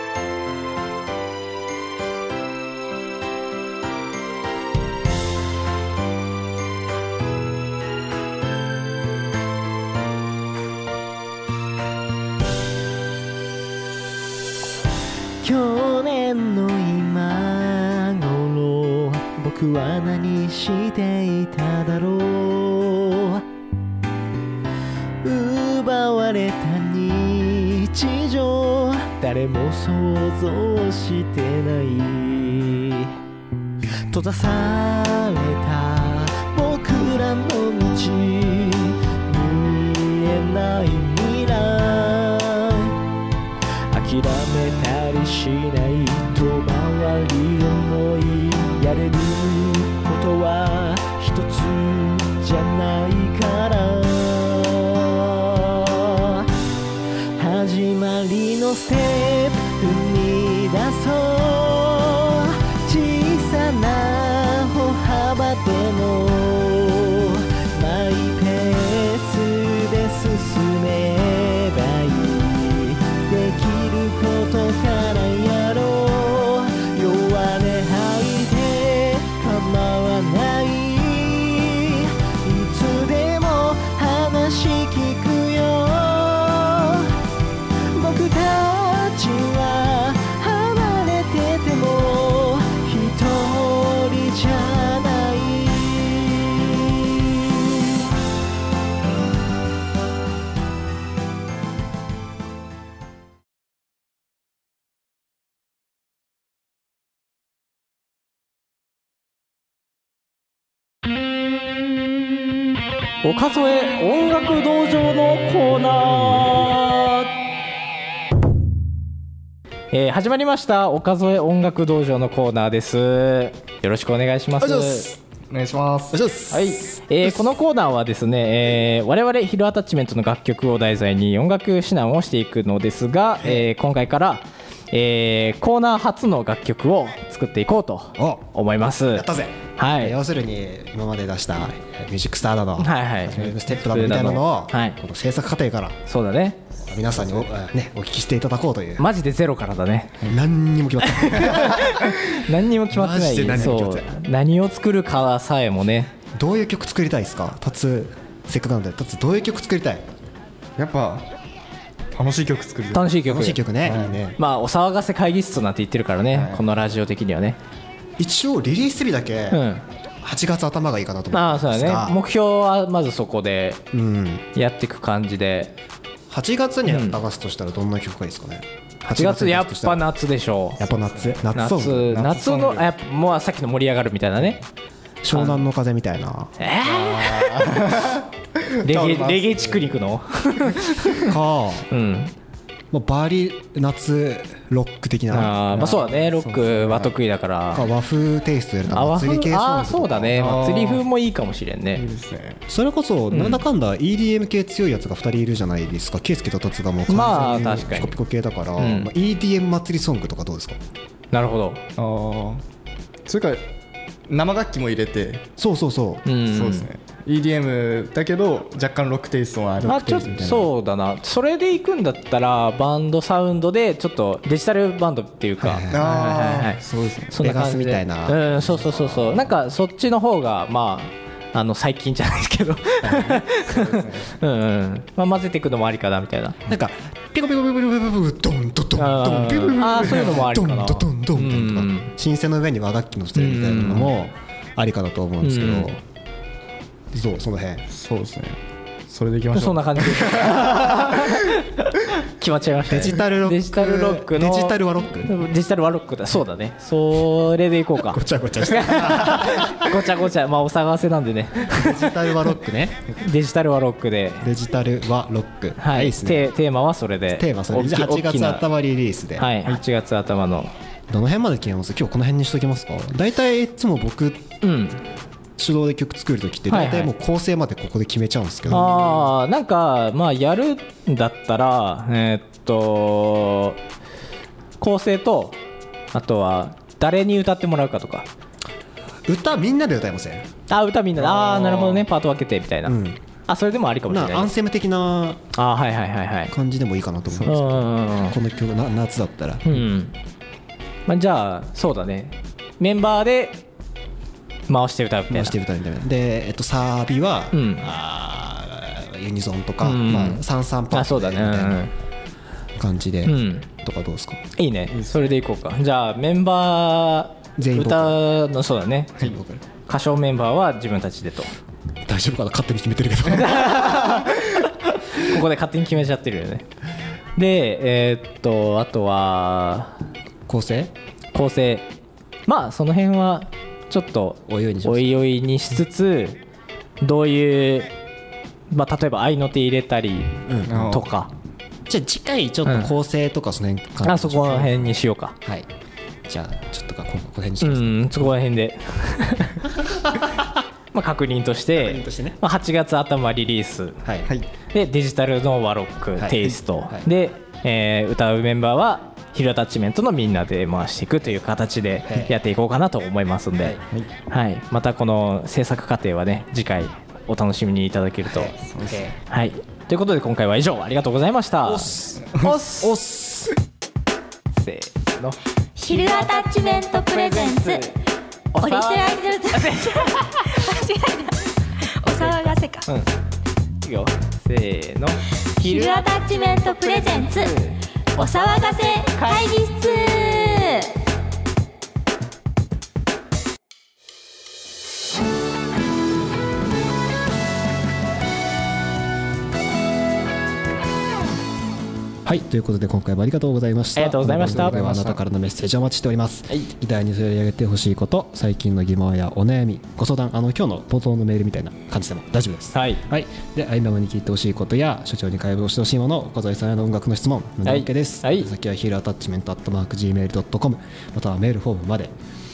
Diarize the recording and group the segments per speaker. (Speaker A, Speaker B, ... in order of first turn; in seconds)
Speaker A: 15.4-23.4, 25.2-33.1, 34.1-43.0, 43.9-56.5, 57.4-87.1, 87.9-97.9
Speaker B: 113.2-117.3, 119.9-125.1, 126.5-140.2, 142.8-145.0, 146.1-146.6, 149.0-150.2, 151.1-156.1, 162.9-163.6, 164.4-167.6, 169.5-169.8, 171.3-173.8, 174.5-175.7, 176.8-177.2, 179.1-180.8, 181.5-184.6, 185.3-185.6, 186.6-188.0, 188.8-191.3, 191.9-192.3, 195.3-197.9, 198.9-202.0, 203.3-203.6, 207.1-208.2, 208.8-209.1, 211.3-211.8, 216.2-216.9, 219.8-226.8, 227.3-236.6, 238.9-242.1, 243.3-244.1, 245.4-245.9, 249.5-262.4, 263.2-264.5, 265.8-268.6, 269.4-270.7, 274.6-275.0, 276.7-277.1, 278.7-283.8, 284.8-285.6, 286.1-288.3, 290.7-293.0, 293.5-294.5, 295.5-296.5, 297.4-298.4, 299.6-300.1, 301.1-303.6, 304.7-305.6, 307.5-307.9, 309.8-311.9, 313.2-313.7, 314.6-321.5, 323.2-326.6, 327.4-330.0, 331.3-331.9, 332.4-336.4, 337.0-337.9, 338.7-341.3, 342.6-342.9, 344.0-345.4, 347.6-349.6, 350.9-354.0, 354.7-368.6, 369.2-373.0, 374.5-375.4, 377.2-377.9, 378.5-380.5, 382.1-383.1, 383.8-386.0, 387.4-388.3, 403.9-404.8, 412.7-413.0, 417.6-418.5
Speaker C: 124.6-125.2, 126.1-127.5, 138.2-146.0, 146.8-149.1, 150.2-154.1, 156.3-160.1, 163.2-164.4, 168.2-169.6, 170.2-172.2, 173.9-174.4, 176.3-180.1, 180.8-182.7, 185.2-186.5, 191.2-191.9, 192.9-196.0, 197.7-200.5, 202.7-210.8, 215.6-216.2, 219.8-220.7, 225.6-226.0, 227.4-229.5, 233.0-233.7, 236.7-246.0, 247.1-247.8, 252.9-255.4, 258.0-260.1, 261.7-263.1, 264.4-266.5, 267.3-269.5, 271.1-274.5, 275.6-279.2, 289.2-290.5, 292.9-293.2, 294.1-295.4, 296.5-299.9, 305.3-311.9, 312.8-314.4, 317.6-318.2, 319.2-319.6, 322.1-324.3, 330.5-330.9, 334.5-335.1, 340.4-341.1, 341.9-345.7, 346.2-348.3, 349.6-350.5, 351.7-352.4, 354.0-354.3, 356.2-357.1, 362.0-362.3, 368.3-369.1, 371.6-373.5, 402.2-422.1
Speaker D: 125.5-126.2, 160.8-161.3, 162.1-163.2, 163.8-164.2, 166.3-166.6, 180.8-181.4, 182.3-182.8, 186.8-189.9, 195.7-197.1, 200.4-201.0, 201.9-202.6, 212.0-212.6, 213.2-213.6, 214.3-215.5, 216.5-220.4, 225.9-227.3, 247.9-251.4, 291.2-292.0, 340.7-341.0, 368.7-369.1, 404.3-405.2
Speaker E: 375.8-377.9, 378.6-382.9, 385.6-387.6, 388.1-390.9